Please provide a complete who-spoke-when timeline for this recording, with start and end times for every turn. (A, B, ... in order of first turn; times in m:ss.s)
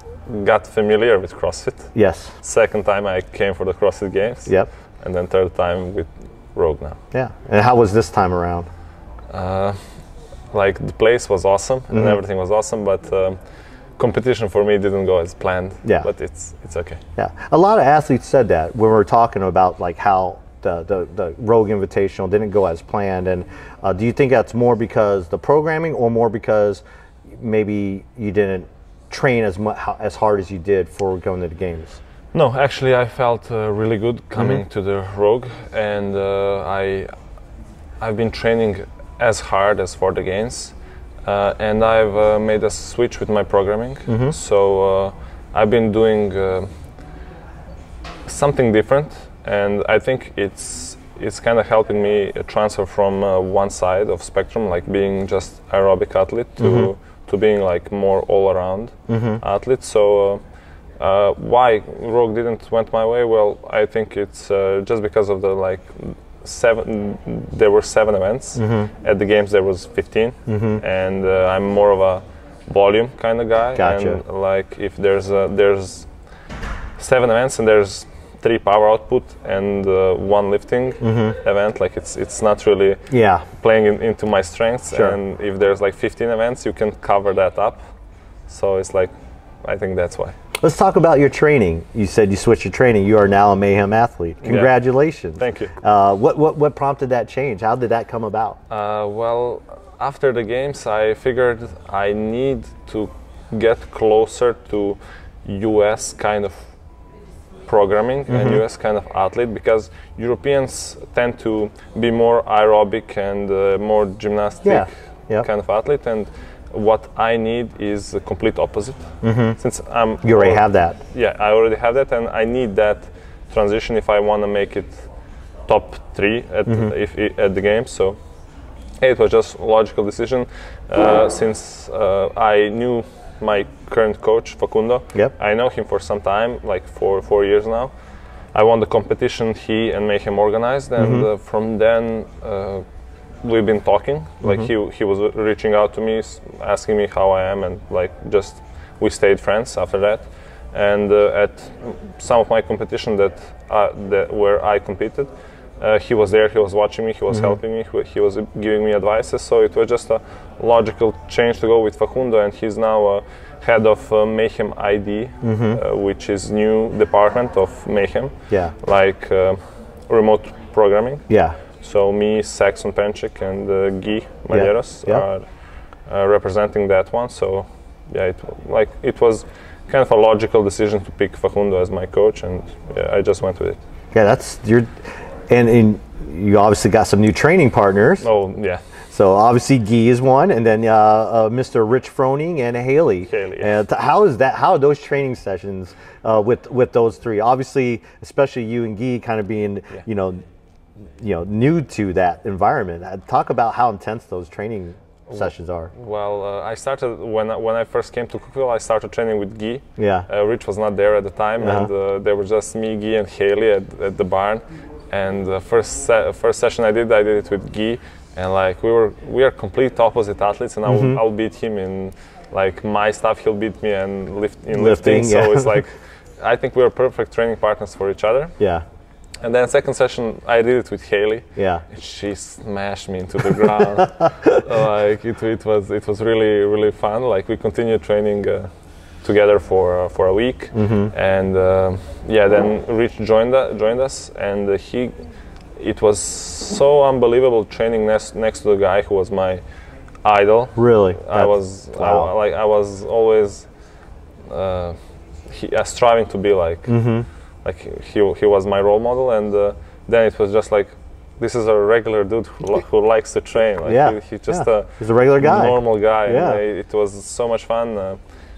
0:00.2-0:07.0 A
0:01.9-0:02.3 B
0:07.1-0:08.7 B
0:09.3-0:09.8 A
0:10.5-0:13.4 A
0:11.9-0:12.2 B
0:14.0-0:17.0 A
0:15.8-0:16.1 B
0:17.2-0:26.8 B
0:27.3-0:32.0 B
0:32.3-0:37.1 A
0:34.4-0:34.6 B
0:38.0-0:46.7 A
0:44.1-0:44.4 B
0:48.2-1:00.4 A
0:56.6-0:56.9 B
0:59.1-0:59.4 B
1:01.0-1:16.1 A
1:08.6-1:08.9 B
1:10.5-1:10.8 B
1:13.8-1:14.2 B
1:17.0-1:27.8 A
1:21.0-1:21.4 B
1:23.1-1:23.4 B
1:24.9-1:25.2 B
1:28.5-1:29.1 A
1:29.6-1:30.3 A
1:30.6-1:38.6 B
1:34.4-1:34.8 A
1:35.4-1:35.7 A
1:38.7-1:46.7 A
1:47.7-2:05.1 A
1:48.3-1:48.6 B
1:54.6-1:55.5 B
1:59.2-1:59.6 B
2:00.2-2:01.0 B
2:05.7-2:08.2 A
2:06.6-2:06.9 B
2:09.0-2:17.9 A
2:18.5-2:22.8 A
2:21.0-2:21.2 B
2:23.4-2:51.2 A
2:24.4-2:24.7 B
2:37.3-2:37.6 B
2:45.4-2:45.8 B
2:51.3-2:51.6 B
2:51.8-2:55.5 A
2:54.5-2:55.2 B
2:56.0-3:03.8 A
3:04.1-3:04.9 B
3:05.5-3:08.3 B
3:08.2-3:08.8 A
3:09.1-3:20.4 B
3:13.3-3:13.8 A
3:21.2-3:25.9 B
3:25.3-3:48.5 A
3:30.0-3:30.3 B
3:31.6-3:31.9 B
3:40.8-3:41.2 B
3:44.7-3:45.8 B
3:49.4-3:58.7 A
3:51.6-3:51.8 B
3:59.2-4:05.1 A
4:00.7-4:01.1 B
4:05.8-4:09.6 A
4:10.2-4:13.7 A
4:10.8-4:12.3 B
4:14.5-4:15.0 A
4:15.5-4:17.0 A
4:16.9-4:17.2 B
4:17.6-4:28.2 A
4:23.8-4:26.6 B